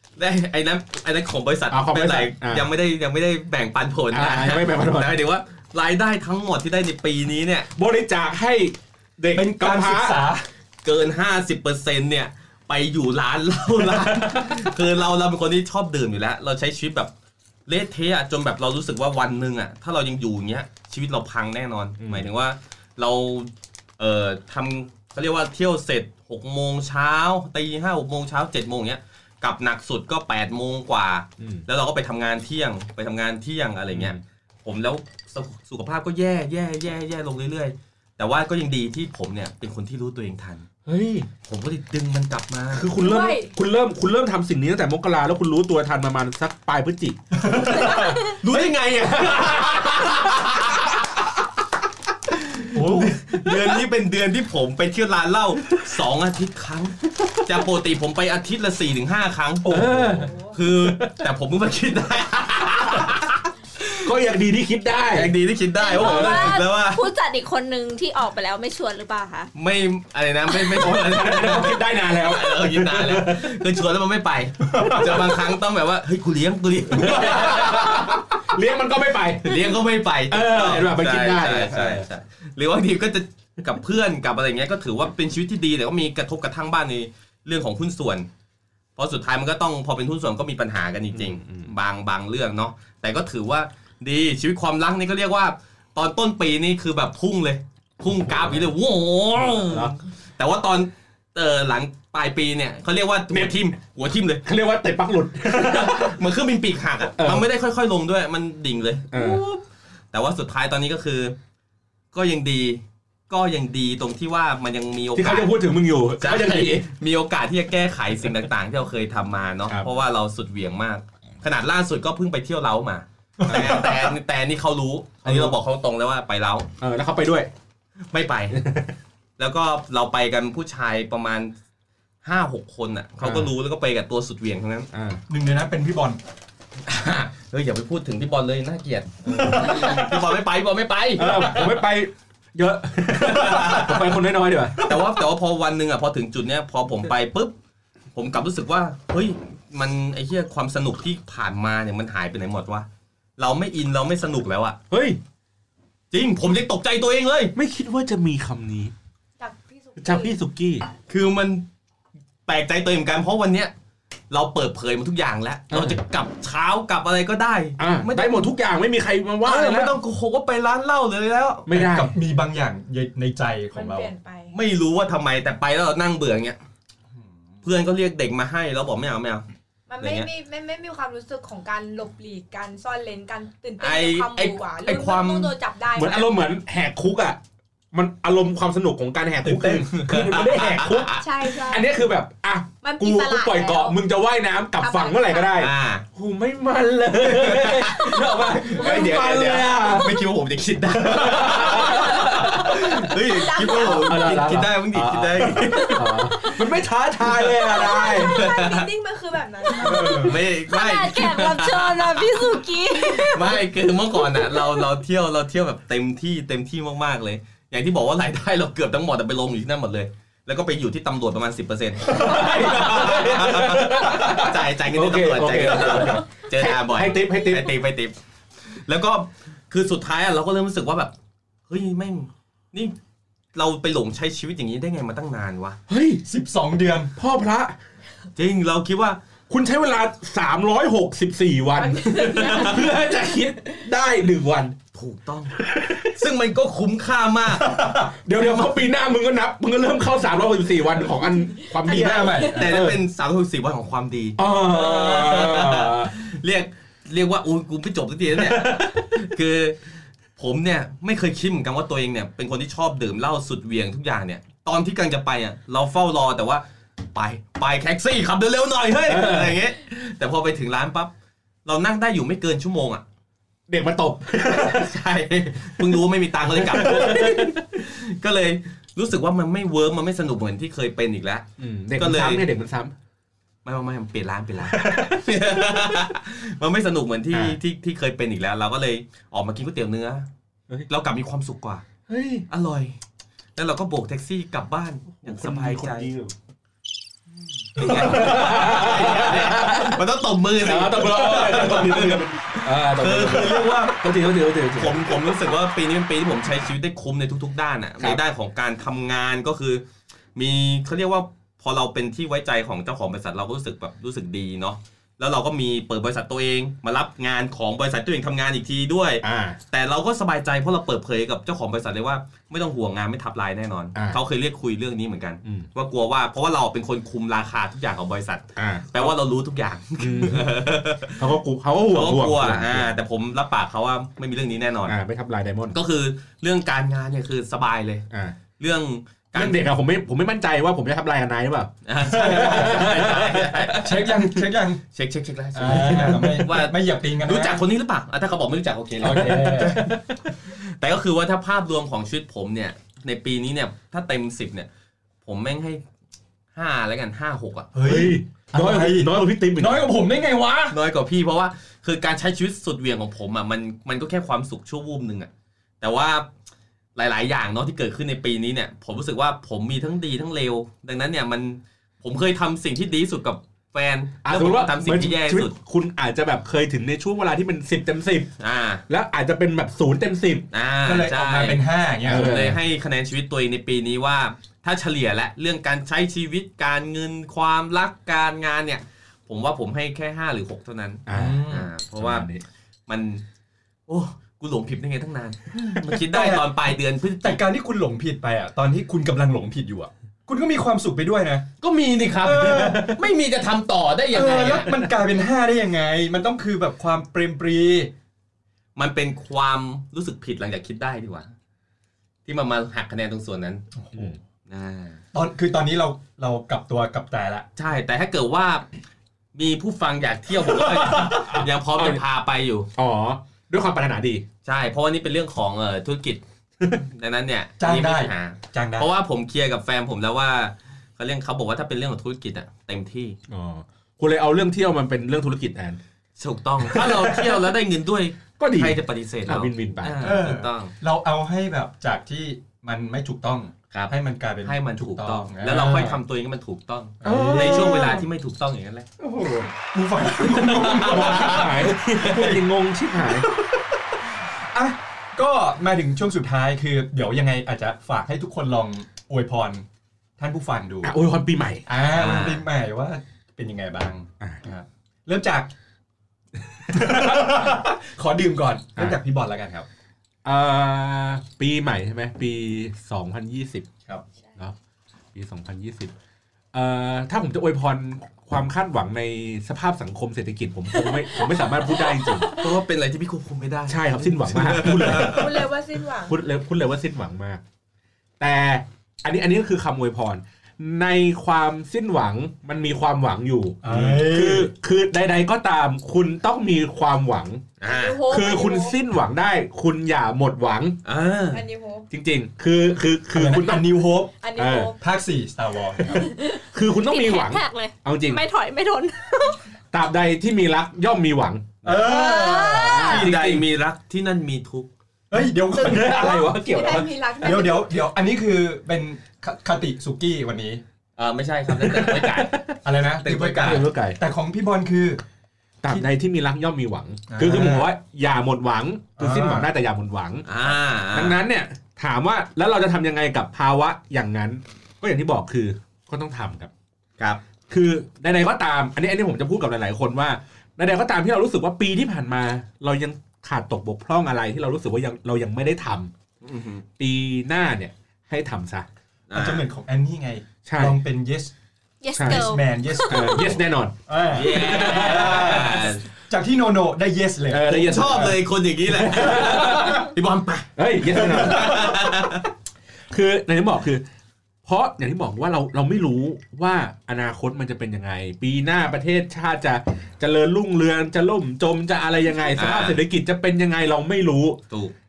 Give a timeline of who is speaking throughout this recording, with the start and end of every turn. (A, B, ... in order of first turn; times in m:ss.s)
0:00.2-0:07.7 A
0:01.7-0:02.7 B
0:04.1-0:05.1 B
0:07.7-0:10.2 B
0:09.3-0:10.5 C
0:10.8-0:17.1 A
0:14.0-0:14.7 B
0:17.7-0:40.7 A
0:22.0-0:22.3 B
0:33.9-0:34.2 B
0:40.9-0:41.3 B
0:41.4-0:42.9 A
0:42.7-0:48.1 B
0:43.0-0:43.6 D
0:47.4-0:48.7 C
0:47.8-0:51.0 A
0:49.3-0:50.1 B
0:52.7-0:53.2 C
0:52.8-1:03.3 A
0:59.6-1:00.3 C
0:59.7-1:01.3 B
1:02.9-1:03.3 B
1:04.0-1:05.3 B
1:05.1-1:07.0 A
1:05.8-1:09.5 E
1:05.9-1:06.6 B
1:09.6-1:18.2 A
1:10.6-1:13.7 B
1:14.7-1:15.3 B
1:14.7-1:15.0 C
1:16.9-1:19.8 B
1:19.4-1:28.3 A
1:20.3-1:22.1 B
1:29.0-1:44.5 A
1:31.1-1:31.7 B
1:38.2-1:38.7 B
1:39.6-1:39.9 B
1:43.3-1:43.6 B
1:44.4-1:46.2 B
1:45.5-1:51.4 A
1:47.2-1:47.5 B
1:49.1-1:49.4 B
1:52.1-1:55.5 A
1:55.2-1:56.9 B
1:56.2-2:06.7 A
2:03.4-2:04.1 C
2:05.2-2:05.6 B
2:06.8-2:07.5 B
2:08.1-2:08.6 A
2:08.5-2:08.9 B
2:09.4-2:11.5 A
2:12.2-2:14.9 A
2:13.2-2:13.5 B
2:14.9-2:15.2 B
2:15.3-2:16.2 C
2:16.9-2:21.8 A
2:19.5-2:20.0 B
2:19.6-2:20.0 C
2:21.2-2:24.9 B
2:23.3-2:24.0 A
2:24.8-2:27.6 A
2:28.2-2:32.9 A
2:33.4-2:34.8 A
2:34.9-2:35.2 B
2:36.1-2:37.5 A
2:37.6-2:38.9 B
2:39.4-2:40.4 D
2:40.0-2:40.9 B
2:41.1-2:41.6 A
2:42.5-2:43.7 A
2:44.3-2:48.5 A
2:45.7-2:46.0 B
2:47.8-2:50.0 B
2:49.4-2:51.7 A
2:51.7-2:52.1 B
2:51.7-2:54.1 C
2:53.7-2:54.5 D
2:54.5-2:56.6 A
2:57.6-2:59.4 A
2:59.9-3:06.3 D
3:00.0-3:00.3 A
3:03.8-3:05.5 A
3:06.0-3:07.4 B
3:07.9-3:20.3 B
3:09.4-3:09.9 C
3:09.9-3:11.2 A
3:11.2-3:11.9 D
3:12.8-3:14.0 D
3:14.8-3:15.6 D
3:15.6-3:16.1 A
3:17.2-3:26.4 A
3:21.0-3:23.1 B
3:22.0-3:22.3 D
3:23.1-3:24.3 D
3:23.7-3:28.5 B
3:27.2-3:28.9 A
3:27.6-3:30.4 D
3:29.8-3:30.3 B
3:29.9-3:34.9 E
3:29.9-3:48.2 A
3:42.1-3:47.7 B
3:48.7-3:51.1 A
3:51.7-3:53.0 A
3:53.6-3:55.8 A
3:55.9-3:56.2 B
3:56.2-3:57.1 C
3:57.2-3:57.8 B
3:58.4-3:59.2 A
3:59.5-4:04.8 B
4:02.1-4:02.9 A
4:04.9-4:08.9 A
4:05.6-4:06.1 B
4:07.5-4:08.1 C
4:08.2-4:13.0 B
4:11.8-4:12.9 C
4:12.1-4:19.8 A
4:14.4-4:16.1 B
4:18.3-4:19.2 B
4:20.4-4:31.1 A
4:29.1-4:29.6 B
4:31.7-4:33.0 A
4:33.7-4:34.9 B
4:34.4-4:42.5 A
4:36.5-4:37.6 B
4:41.6-4:42.9 B
4:43.6-4:50.3 A
4:44.7-4:45.6 B
4:50.9-4:51.8 A
4:52.1-4:52.4 B
4:52.5-4:53.0 A
4:53.6-4:56.1 A
4:55.2-4:56.3 B
4:57.7-5:04.2 A
4:57.8-5:00.0 B
5:00.6-5:05.2 B
5:04.7-5:09.8 A
5:10.4-5:35.0 A
5:19.2-5:19.6 B
5:28.6-5:29.1 B
5:30.0-5:30.5 B
5:31.2-5:32.9 B
5:34.9-5:35.8 B
5:35.7-5:38.1 A
5:38.1-5:38.4 B
5:38.6-5:39.6 A
5:39.4-5:43.4 B
5:41.8-5:44.3 A
5:42.0-5:43.2 C
5:43.7-5:44.8 C
5:44.9-5:49.9 A
5:45.5-5:47.6 C
5:45.6-5:46.4 B
5:49.0-5:49.9 C
5:49.0-5:50.2 B
5:50.5-5:54.7 A
5:55.2-5:55.8 A
5:56.6-5:57.7 A
5:57.7-6:00.8 C
5:57.8-5:59.9 B
6:00.7-6:05.3 A
6:05.8-6:06.3 A
6:07.0-6:15.5 A
6:14.2-6:18.3 B
6:18.4-6:18.8 A
6:18.9-6:20.5 B
6:20.5-6:32.3 A
6:20.8-6:22.4 C
6:22.0-6:22.6 B
6:31.1-6:32.4 B
6:31.1-6:31.7 C
6:32.9-6:33.2 A
6:33.9-6:37.4 A
6:36.1-6:36.5 C
6:37.2-6:41.5 C
6:41.6-6:44.7 A
6:42.2-6:43.0 C
6:44.1-6:47.9 C
6:48.8-6:51.3 A
6:52.3-6:53.6 A
6:53.8-6:54.2 C
6:54.5-6:55.0 A
6:55.1-6:57.5 C
6:57.6-6:58.7 A
6:59.4-7:02.7 A
7:00.9-7:02.0 B
7:02.8-7:04.2 B
7:04.4-7:13.2 A
7:07.6-7:08.9 C
7:13.3-7:15.8 B
7:16.2-7:20.7 A
7:16.6-7:17.4 B
7:18.4-7:20.2 B
7:20.0-7:26.0 C
7:23.7-7:28.9 A
7:27.0-7:28.1 C
7:27.0-7:28.0 B
7:29.0-7:39.6 C
7:30.3-7:32.3 A
7:30.8-7:33.3 B
7:40.2-7:41.0 C
7:40.8-7:41.7 B
7:41.7-7:45.5 C
7:41.9-7:42.4 A
7:46.7-7:49.7 C
7:50.2-7:53.7 B
7:55.1-7:55.9 B
7:56.5-8:02.4 B
8:00.7-8:02.5 D
8:02.3-8:05.4 A
8:03.7-8:05.4 B
8:05.0-8:06.2 D
8:06.1-8:07.4 B
8:08.2-8:17.5 B
8:13.6-8:14.5 C
8:17.6-8:18.0 A
8:17.6-8:18.8 D
8:18.1-8:20.8 B
8:20.8-8:21.4 A
8:21.3-8:21.9 D
8:21.9-8:23.8 B
8:23.1-8:24.1 C
8:24.2-8:24.8 D
8:24.4-8:24.7 B
8:24.8-8:26.1 C
8:25.8-8:26.5 D
8:26.5-8:28.2 B
8:26.8-8:29.4 E
8:29.7-8:31.8 B
8:31.6-8:33.1 C
8:31.8-8:33.0 E
8:32.6-8:33.4 B
8:32.8-8:34.7 A
8:35.1-8:36.3 C
8:35.5-8:36.9 B
8:35.8-8:37.8 D
8:37.2-8:40.6 C
8:41.0-8:42.4 A
8:41.5-8:42.5 B
8:42.6-8:45.0 C
8:43.0-8:43.7 A
8:43.4-8:44.0 B
8:45.6-8:50.3 B
8:47.1-8:47.7 C
8:49.0-8:49.5 C
8:50.3-8:51.2 A
8:50.9-8:56.5 B
8:57.5-9:05.9 B
9:06.2-9:06.6 A
9:06.8-9:08.7 B
9:09.1-9:09.5 A
9:09.1-9:11.3 C
9:10.5-9:10.8 B
9:11.8-9:13.3 E
9:12.0-9:12.3 B
9:12.0-9:18.2 C
9:12.9-9:15.7 B
9:14.1-9:15.8 A
9:17.3-9:18.2 B
9:17.5-9:22.3 A
9:18.7-9:19.9 B
9:20.6-9:21.9 B
9:20.9-9:22.1 C
9:22.9-9:23.8 B
9:24.4-9:34.4 B
9:32.4-9:32.8 A